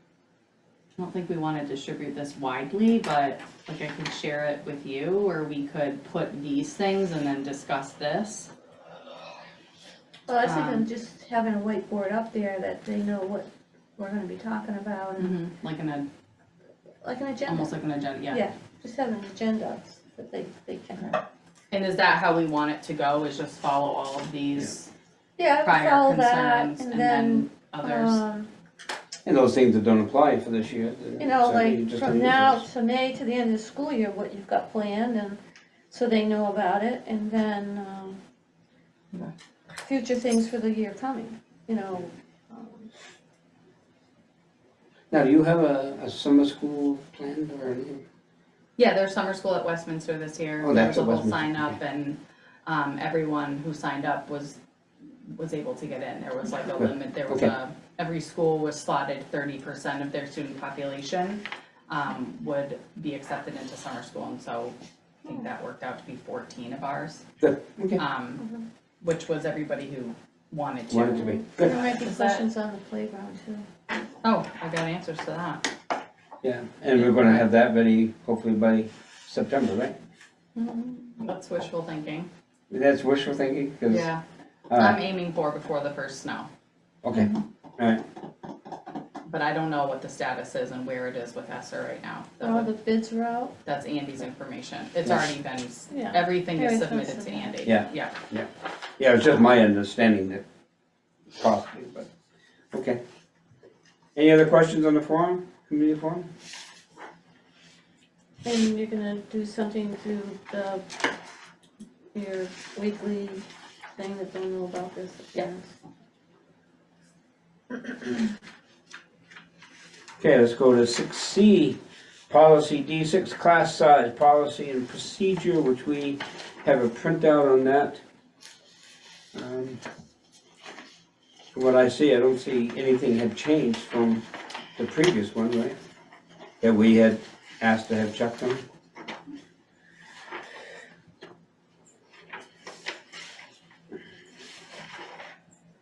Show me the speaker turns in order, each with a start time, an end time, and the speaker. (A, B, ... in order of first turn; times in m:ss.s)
0:01.0-0:08.5 A
0:10.3-0:15.3 B
0:10.4-0:10.9 A
0:15.2-0:16.0 A
0:17.0-0:17.7 B
0:17.4-0:18.4 A
0:18.3-0:21.0 B
0:21.7-0:24.9 A
0:25.4-0:28.5 B
0:25.6-0:28.2 A
0:29.2-0:32.6 C
0:31.2-0:35.4 B
0:35.9-0:38.2 B
0:39.8-0:42.9 B
0:45.1-0:48.0 C
0:48.8-0:54.6 A
0:50.6-0:51.7 C
0:55.2-1:07.2 A
0:56.8-0:57.5 C
1:07.4-1:08.0 C
1:08.0-1:08.4 A
1:09.0-1:12.4 A
1:10.9-1:11.7 C
1:11.5-1:13.7 B
1:14.2-1:15.7 A
1:16.4-1:20.0 C
1:16.9-1:17.4 A
1:20.6-1:22.3 A
1:22.7-1:24.1 C
1:23.9-1:26.5 A
1:24.7-1:25.0 C
1:27.0-1:28.0 C
1:29.2-1:32.7 A
1:32.4-1:33.5 B
1:33.6-1:38.2 A
1:35.9-1:37.6 B
1:37.6-1:40.4 C
1:41.3-1:42.1 C
1:42.7-1:43.0 C
1:44.1-1:46.3 C
1:48.4-1:50.8 B
1:52.1-1:53.4 B
1:54.0-1:55.7 B
2:00.2-2:08.0 C
2:09.3-2:09.8 C
2:11.5-2:14.2 C
2:14.8-2:15.8 C
2:16.6-2:18.6 C